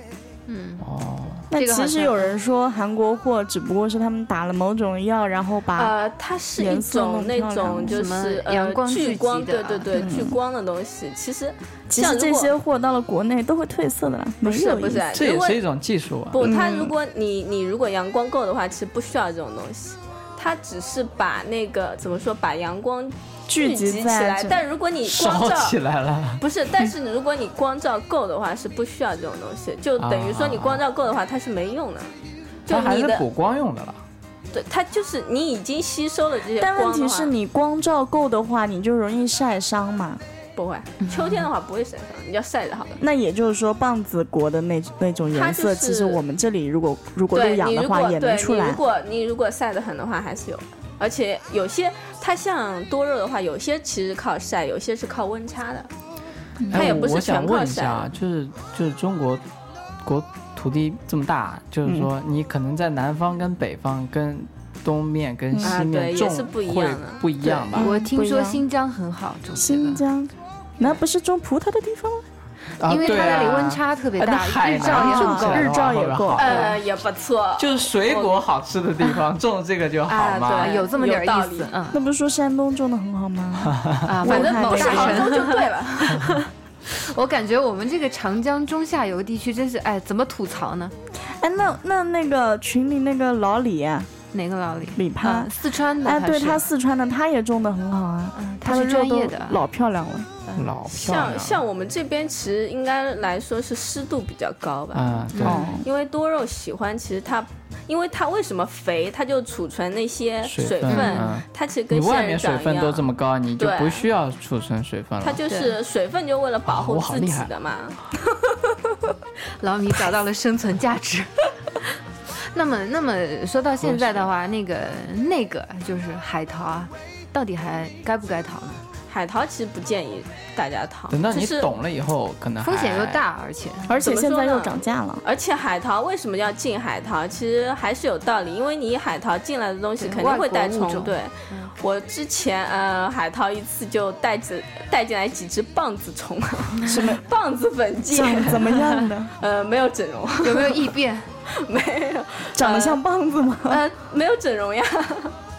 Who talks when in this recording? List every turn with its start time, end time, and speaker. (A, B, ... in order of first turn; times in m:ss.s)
0:00.5-0:00.8 A
0:00.8-0:01.5 B
0:01.5-0:05.9 C
0:01.5-0:02.3 A
0:05.8-0:12.5 D
0:06.6-0:08.0 C
0:07.9-0:09.9 A
0:09.9-0:10.4 C
0:11.9-0:15.0 C
0:14.4-0:15.6 D
0:15.1-0:16.5 B
0:16.3-0:25.8 D
0:16.4-0:16.9 C
0:23.5-0:24.6 C
0:25.1-0:26.4 B
0:26.4-0:32.2 D
0:30.0-0:30.8 B
0:32.7-0:33.3 D
0:32.7-0:34.0 B
0:34.5-0:37.3 D
0:36.6-0:40.2 C
0:40.6-0:43.0 D
0:43.0-0:48.8 C
0:45.3-0:46.2 D
0:47.3-0:55.9 D
0:56.6-0:57.0 C
0:56.7-0:58.1 D
0:56.7-0:59.4 B
1:00.0-1:07.9 B
1:05.5-1:05.8 C
1:05.6-1:07.8 D
1:07.7-1:08.6 C
1:07.8-1:10.0 A
1:09.6-1:12.2 C
1:12.8-1:16.8 B
1:12.8-1:15.7 A
1:14.7-1:16.5 C
1:16.4-1:18.4 D
1:16.4-1:16.8 A
1:17.6-1:20.7 B
1:20.1-1:21.7 D
1:20.3-1:22.0 A
1:21.9-1:25.3 C
1:23.6-1:24.1 B
1:24.0-1:30.9 A
1:24.2-1:26.3 D
1:31.2-1:34.1 C
1:34.3-1:36.6 A
1:35.0-1:35.5 C
1:36.0-1:40.3 C
1:38.3-1:39.6 A
1:40.6-1:41.6 B
1:40.9-1:54.1 D
1:44.9-1:45.7 B
1:45.3-1:45.6 A
1:45.4-1:45.9 C
1:50.4-1:55.4 B
1:50.9-1:51.3 A
1:55.2-1:58.0 D
1:55.5-1:55.7 A
1:56.7-1:57.5 B
1:59.6-2:01.5 A
2:02.5-2:08.8 A
2:03.8-2:04.3 B
2:09.1-2:11.7 D
2:11.1-2:13.2 B
2:12.6-2:13.9 A
2:13.9-2:15.2 C
2:14.0-2:30.9 D
2:20.0-2:21.7 A
2:26.8-2:27.2 C
2:28.1-2:29.3 C
2:30.4-2:31.3 A
2:31.5-2:33.0 D
2:32.6-2:33.8 C
2:33.7-2:35.4 D